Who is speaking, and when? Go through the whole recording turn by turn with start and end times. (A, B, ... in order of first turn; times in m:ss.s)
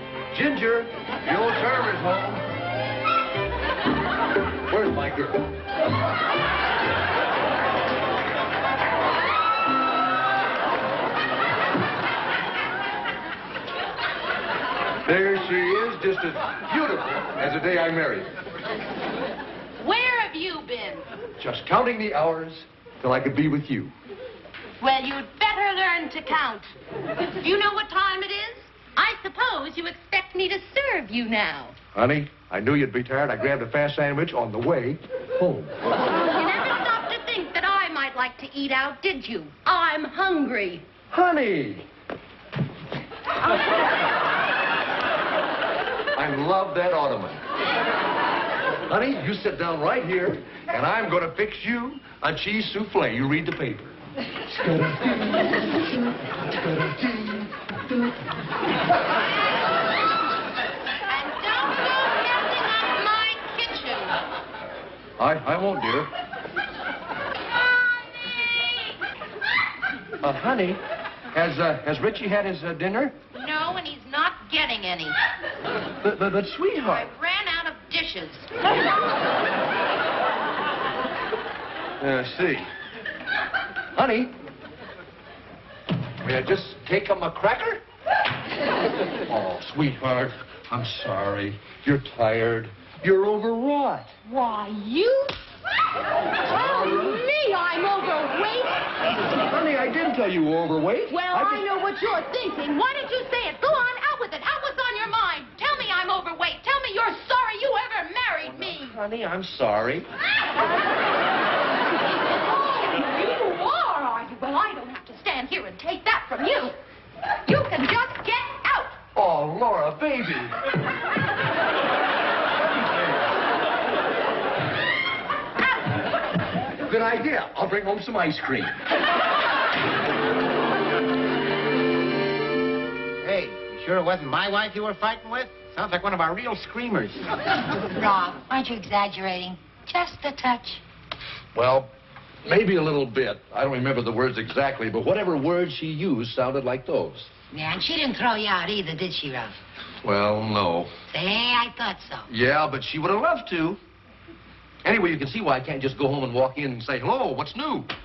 0:00.3-0:02.4 A
0:04.7-0:05.5 A
0:15.0-0:18.3 A
0:19.8-0:21.1 B
0:21.4-0:23.9 A
0:24.8-0:26.7 B
0:27.4-0:31.8 B
0:31.9-0:35.8 A
0:36.2-0:40.8 B
0:41.1-0:41.9 A
0:46.1-0:47.4 A
0:48.9-0:54.0 A
0:54.6-0:55.2 A
1:01.1-1:04.2 B
1:05.2-1:06.1 A
1:10.2-1:10.8 A
1:11.3-1:13.2 A
1:13.4-1:15.1 B
1:16.0-1:17.0 A
1:16.8-1:18.5 B
1:22.0-1:22.6 A
1:24.0-1:24.3 A
1:26.2-1:27.8 A
1:29.3-1:34.1 A
1:34.2-1:35.4 B
1:36.4-1:38.8 B
1:36.5-1:37.2 A
1:39.4-1:41.7 A
1:41.1-1:48.9 B
1:48.6-1:50.0 A
1:52.5-1:56.8 B
1:57.4-1:59.0 B
1:59.1-2:00.6 A
2:06.9-2:08.8 A
2:13.2-2:17.2 C
2:18.0-2:20.8 D
2:21.5-2:21.9 A
2:22.4-2:27.3 A
2:27.5-2:29.5 D
2:30.0-2:30.9 A
2:31.1-2:32.3 D
2:32.3-2:33.8 A
2:34.8-2:37.9 A